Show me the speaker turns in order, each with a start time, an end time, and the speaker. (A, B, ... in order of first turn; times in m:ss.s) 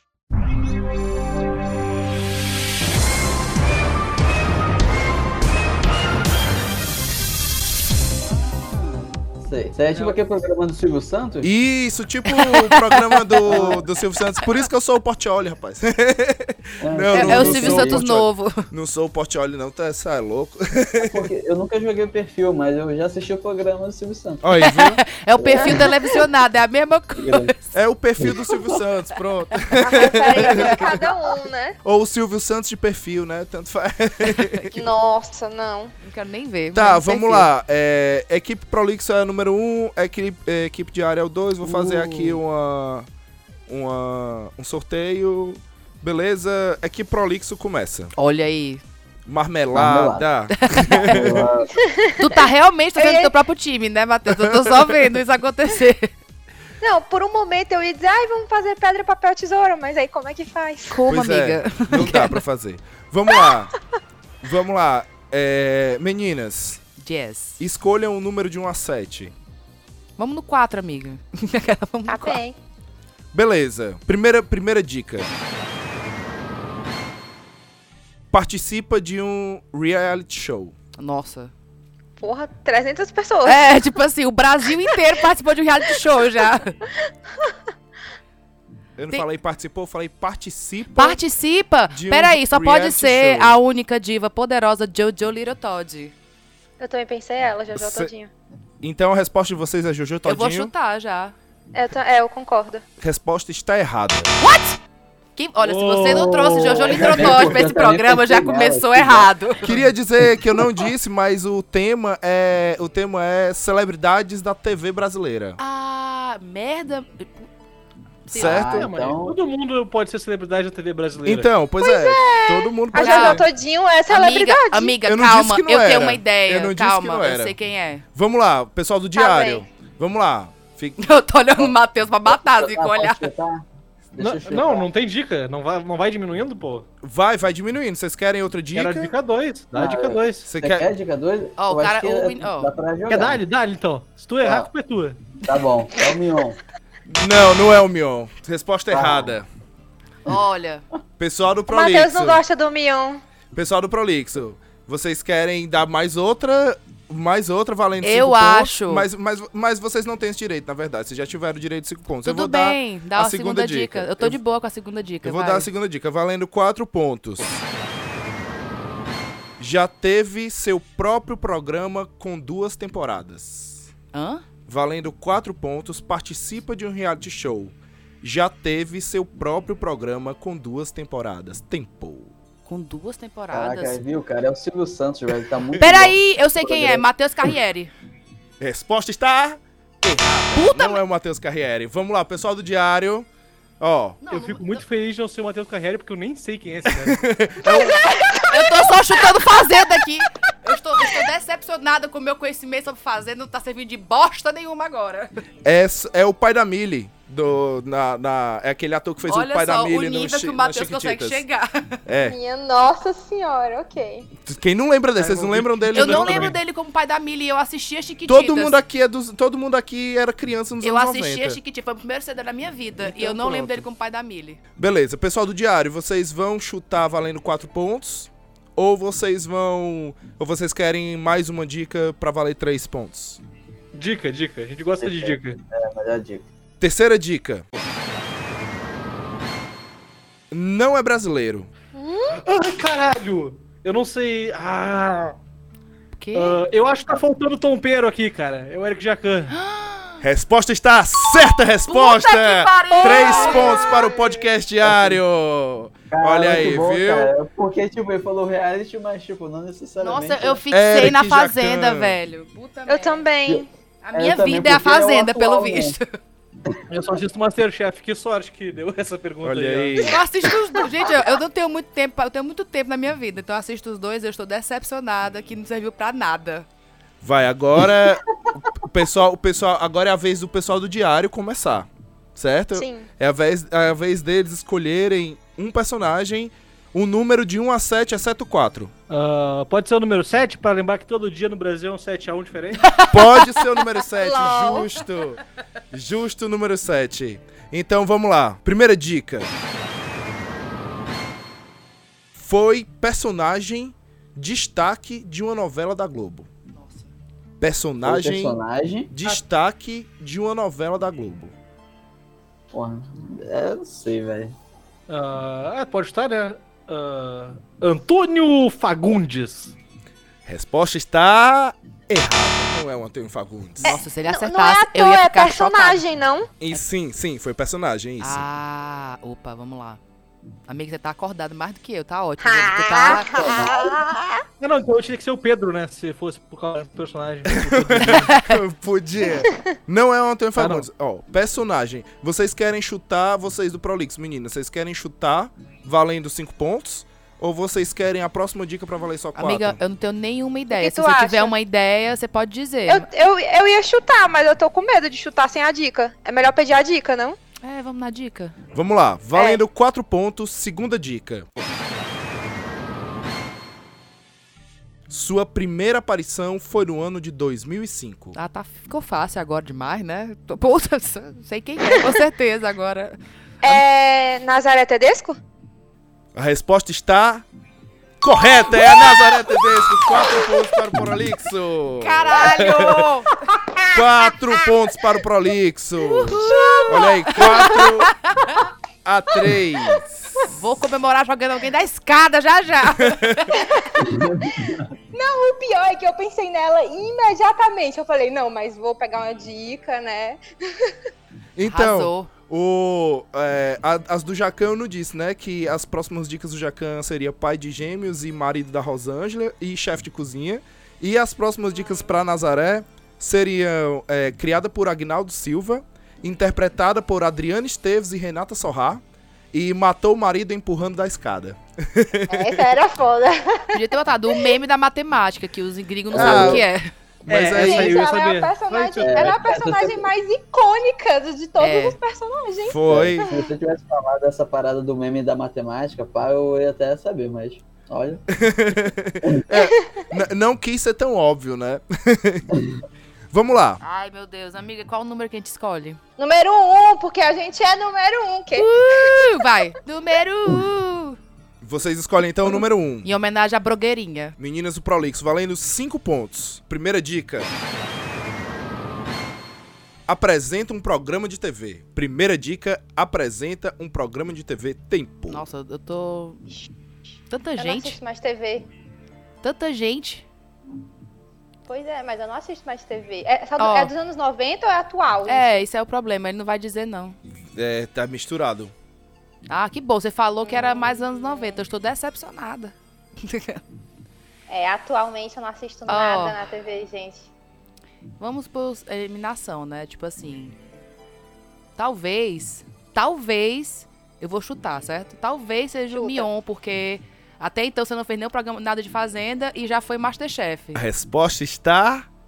0:08.4-0:11.5 A
0:09.9-0:10.2 B
0:11.4-0:21.3 C
0:12.3-0:13.4 D
0:13.5-0:13.8 A
0:16.8-0:18.0 A
0:17.1-0:18.7 D
0:21.0-0:24.4 A
0:24.4-0:25.0 C
0:24.6-0:27.6 D
0:25.4-0:25.9 A
0:27.2-0:27.5 A
0:27.7-0:31.0 C
0:28.2-0:28.5 A
0:29.8-0:31.8 E
0:30.4-0:30.8 D
0:31.8-0:34.8 C
0:34.2-0:34.6 D
0:34.7-0:35.9 E
0:36.0-0:37.5 D
0:36.7-0:43.1 C
0:43.7-0:48.1 C
0:48.2-0:48.8 D
0:49.2-0:51.5 C
0:49.7-0:50.2 A
0:50.6-0:51.1 D
0:51.0-0:51.7 A
0:51.8-0:52.4 E
0:52.2-0:56.1 D
0:53.0-0:53.3 E
0:54.3-0:54.9 C
0:56.8-1:01.0 E
1:00.9-1:02.4 D
1:01.1-1:03.7 C
1:04.4-1:06.8 C
1:07.0-1:07.6 D
1:07.6-1:09.3 C
1:10.2-1:12.4 D
1:12.1-1:12.6 E
1:13.3-1:15.3 C
1:18.3-1:20.7 C
1:21.0-1:21.5 D
1:22.2-1:23.7 E
1:23.4-1:26.8 D
1:29.0-1:31.2 C
1:30.9-1:36.1 D
1:31.9-1:33.6 C
1:36.8-1:38.3 E
1:37.7-1:38.1 C
1:38.8-1:40.7 C
1:40.2-1:41.3 D
1:41.7-1:42.8 E
1:43.0-1:44.3 C
1:44.4-1:44.8 D
1:45.4-1:49.8 D
1:45.6-1:47.6 B
1:46.1-1:49.3 A
1:49.6-1:55.6 C
1:55.6-1:57.4 D
1:58.3-1:58.9 C
1:58.3-1:58.6 D
1:58.3-1:59.4 A
1:58.5-2:01.5 B
2:01.2-2:03.4 C
2:01.8-2:04.9 E
2:02.9-2:03.4 D
2:04.1-2:08.0 D
2:05.0-2:07.6 C
2:08.2-2:11.0 C
2:09.2-2:09.6 E
2:11.0-2:13.3 D
2:12.3-2:14.9 A
2:14.2-2:16.8 B
2:17.0-2:19.1 C
2:18.7-2:20.5 B
2:19.7-2:23.4 A
2:20.5-2:20.9 C
2:21.6-2:22.7 D
2:23.1-2:25.2 B
2:24.4-2:24.7 A
2:25.4-2:26.6 A
2:27.1-2:29.5 C
2:28.9-2:29.3 A
2:30.2-2:30.8 D
2:31.2-2:32.4 C
2:31.7-2:33.2 E
2:33.5-2:44.4 C
2:38.0-2:39.1 D
2:42.2-2:45.7 D
2:45.2-2:47.6 C
2:49.6-2:53.9 C
2:54.1-2:54.4 D
2:54.7-3:02.3 C
3:02.7-3:04.0 D
3:03.5-3:07.0 A
3:05.8-3:07.9 D
3:08.6-3:13.3 C
3:10.5-3:11.0 D
3:13.8-3:14.2 C
3:14.2-3:14.8 D
3:14.3-3:17.2 B
3:16.9-3:18.7 C
3:18.3-3:25.3 D
3:25.6-3:31.4 C
3:29.3-3:32.0 D
3:32.1-3:32.4 C
3:32.2-3:34.3 E
3:34.4-3:36.6 C
3:35.2-3:36.6 B
3:35.9-3:38.8 D
3:38.2-3:41.6 C
3:40.8-3:44.6 D
3:43.1-3:43.8 B
3:44.8-3:53.4 C
3:53.9-3:55.6 B
3:55.0-3:56.4 A
3:56.8-3:57.6 C
4:00.5-4:01.7 C
4:01.9-4:02.4 E
4:02.3-4:05.4 B
4:06.1-4:06.6 D
4:06.3-4:09.6 B
4:09.5-4:10.2 D
4:10.2-4:17.3 C
4:11.9-4:14.0 D
4:12.9-4:14.3 E
4:14.8-4:15.2 A
4:16.1-4:20.6 A
4:20.0-4:23.3 D
4:20.7-4:22.2 C
4:22.9-4:23.7 E
4:23.5-4:26.0 A
4:24.0-4:26.2 D
4:26.9-4:30.1 B
4:29.4-4:30.2 C
4:30.0-4:36.7 D
4:37.2-4:48.9 C
4:42.7-4:43.1 E
4:49.1-4:52.9 B
4:52.8-4:53.6 D
4:53.1-4:55.4 C
4:54.2-4:55.0 E
4:55.9-4:59.5 C
5:02.4-5:06.5 C
5:06.7-5:07.1 D
5:07.6-5:08.6 C
5:08.0-5:09.1 A
5:09.1-5:11.5 C
5:12.7-5:14.5 A
5:15.1-5:19.7 B
5:20.4-5:24.0 C
5:23.8-5:26.0 D
5:23.8-5:26.5 E
5:26.6-5:28.4 C
5:28.2-5:30.0 D
5:30.7-5:33.4 D
5:32.4-5:34.4 E
5:33.2-5:33.9 A
5:34.6-5:38.3 B
5:37.5-5:49.8 C
5:38.1-5:38.6 D
5:40.6-5:40.9 B
5:49.4-5:53.1 D
5:50.7-5:51.5 E
5:52.8-5:57.4 E
5:57.6-5:58.6 D
5:58.7-6:01.5 C
5:59.3-5:59.6 E
6:05.1-6:08.4 C
6:08.3-6:13.8 D
6:13.6-6:15.4 E
6:16.3-6:17.4 C
6:18.2-6:23.0 C
6:20.2-6:20.6 E
6:22.0-6:23.4 D
6:23.6-6:24.0 E
6:23.9-6:28.1 C
6:26.2-6:27.9 E
6:26.3-6:28.7 D
6:29.0-6:30.4 C
6:30.4-6:33.7 D
6:33.0-6:33.5 C
6:33.6-6:34.0 E
6:34.0-6:34.9 A
6:34.7-6:40.9 E
6:41.6-6:59.0 C
6:41.6-6:42.3 D
6:59.5-7:02.7 C
7:02.3-7:03.8 E
7:03.7-7:06.9 D
7:06.1-7:06.6 A
7:06.1-7:06.7 C
7:07.3-7:08.0 C
7:07.3-7:09.4 B
7:07.5-7:13.5 E
7:09.0-7:10.1 A
7:11.6-7:12.0 D
7:12.6-7:13.3 C
7:12.9-7:18.2 A
7:18.3-7:22.5 C
7:19.6-7:20.0 E
7:23.3-7:23.8 C
7:23.8-7:26.0 D
7:26.2-7:29.4 E
7:28.5-7:31.2 D
7:31.6-7:33.1 C
7:33.0-7:34.4 D
7:34.4-7:37.5 C
7:40.1-7:45.4 C
7:45.3-7:46.4 D
7:47.3-7:48.0 D
7:47.6-7:48.7 E
7:49.4-7:50.2 D
7:51.7-7:55.6 E
7:53.6-7:53.9 D
7:55.2-7:57.2 D
7:57.6-7:58.7 C
7:59.5-8:03.6 D
8:00.4-8:01.6 E
8:04.5-8:07.3 E
8:05.9-8:06.4 D
8:08.2-8:10.6 D
8:11.8-8:20.8 D
8:15.9-8:16.3 E
8:20.7-8:22.1 C